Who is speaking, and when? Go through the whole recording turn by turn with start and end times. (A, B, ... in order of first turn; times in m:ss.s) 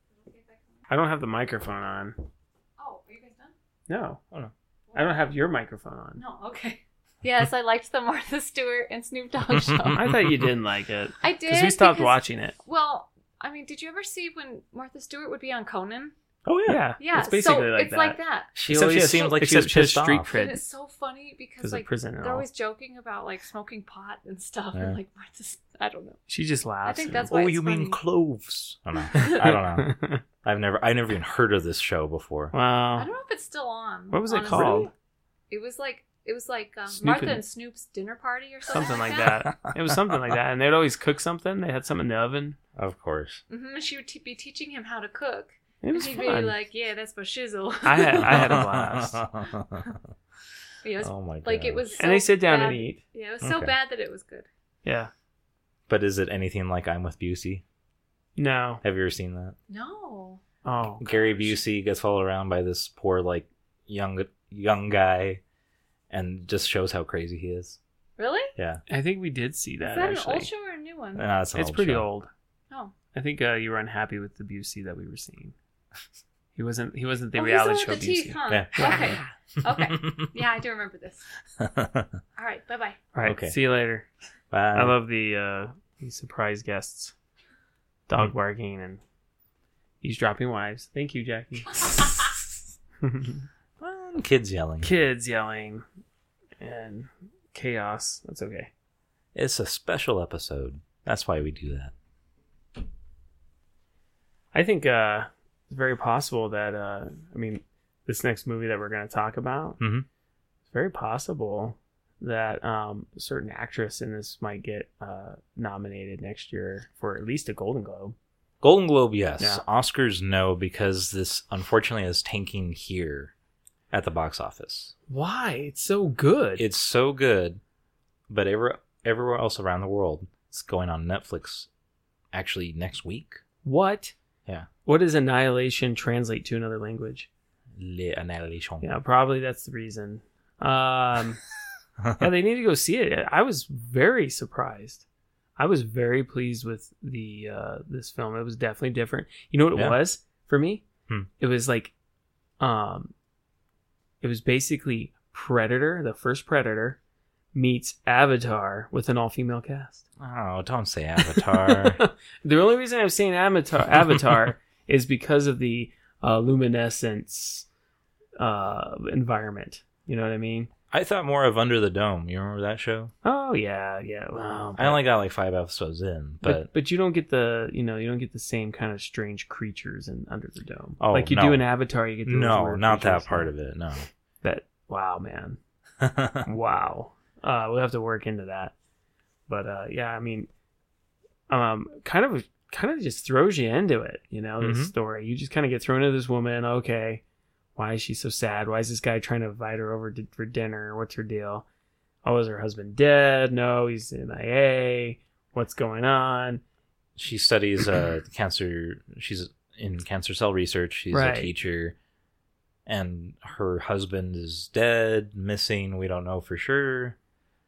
0:00.1-0:00.9 A
0:00.9-0:02.2 B
0:02.8-0:03.5 A
0:03.9-0:04.2 B
0:04.9-0:05.2 A
0:05.0-0:06.2 B
0:06.2-0:10.1 A
0:09.5-0:10.5 C
0:09.9-0:12.6 B
0:11.2-0:16.1 A
0:16.5-0:16.8 C
0:16.7-0:20.6 B
0:17.0-0:19.3 A
0:18.6-0:20.3 C
0:20.3-0:26.2 A
0:21.6-0:22.4 B
0:26.3-0:27.3 B
0:26.8-0:28.0 A
0:27.3-0:32.5 C
0:29.1-0:29.4 A
0:29.1-0:30.2 B
0:32.5-0:33.1 B
0:33.0-0:34.9 A
0:34.1-0:34.9 B
0:34.4-0:34.9 C
0:35.5-0:39.4 A
0:36.9-0:37.4 B
0:38.7-0:42.6 B
0:39.5-0:40.1 C
0:42.8-0:43.4 C
0:43.5-0:48.6 A
0:45.8-0:46.5 B
0:47.8-0:49.2 B
0:48.2-0:50.0 C
0:50.8-0:54.5 A
0:51.0-0:51.8 C
0:52.0-0:53.0 B
0:53.4-0:53.7 C
0:54.8-0:55.1 B
0:55.9-0:57.6 C
0:58.4-0:58.8 B
0:58.8-0:59.6 C
0:59.7-1:00.4 A
1:00.6-1:01.1 B
1:01.0-1:05.4 C
1:06.1-1:07.8 C
1:08.2-1:08.5 A
1:08.6-1:08.8 C
1:08.9-1:10.5 B
1:09.8-1:11.3 A
1:11.2-1:12.0 C
1:11.5-1:12.3 B
1:13.1-1:15.6 B
1:16.6-1:19.2 B
1:17.4-1:21.3 A
1:18.5-1:20.3 C
1:21.6-1:22.2 C
1:22.4-1:23.0 A
1:23.1-1:24.1 B
1:23.2-1:23.6 C
1:24.5-1:25.0 C
1:24.7-1:27.1 B
1:28.1-1:29.0 B
1:30.0-1:32.3 B
1:33.0-1:33.4 B
1:33.8-1:34.9 C
1:34.8-1:35.8 B
1:36.6-1:38.7 B
1:39.4-1:41.9 C
1:44.5-1:49.8 B
1:49.8-1:50.1 C
1:50.7-1:58.2 B
1:58.6-2:03.3 C
2:03.9-2:04.9 C
2:05.1-2:06.6 B
2:06.6-2:07.6 C
2:08.3-2:11.7 C
2:12.3-2:13.4 C
2:13.6-2:14.1 B
2:14.8-2:17.3 B
2:17.8-2:18.9 C
2:18.8-2:21.4 B
2:22.0-2:22.3 C
2:22.2-2:25.0 B
2:25.6-2:30.8 B
2:31.4-2:31.9 B
2:32.6-2:33.1 B
2:34.2-2:37.0 B
2:37.5-2:40.0 B
2:40.2-2:42.0 C
2:41.2-2:47.7 B
2:43.9-2:44.3 C
2:48.4-2:50.7 B
2:50.9-2:53.1 C
2:53.2-2:55.0 B
2:54.8-2:56.7 C
2:56.4-3:03.5 B
3:01.0-3:01.6 C
3:02.2-3:04.1 C
3:04.4-3:05.6 B
3:06.0-3:06.5 C
3:06.4-3:08.7 B
3:09.5-3:10.5 B
3:11.5-3:17.2 B
3:14.6-3:14.9 C
3:17.8-3:21.7 B
3:22.2-3:26.6 B
3:27.2-3:32.0 C
3:31.1-3:31.5 B
3:32.9-3:37.2 C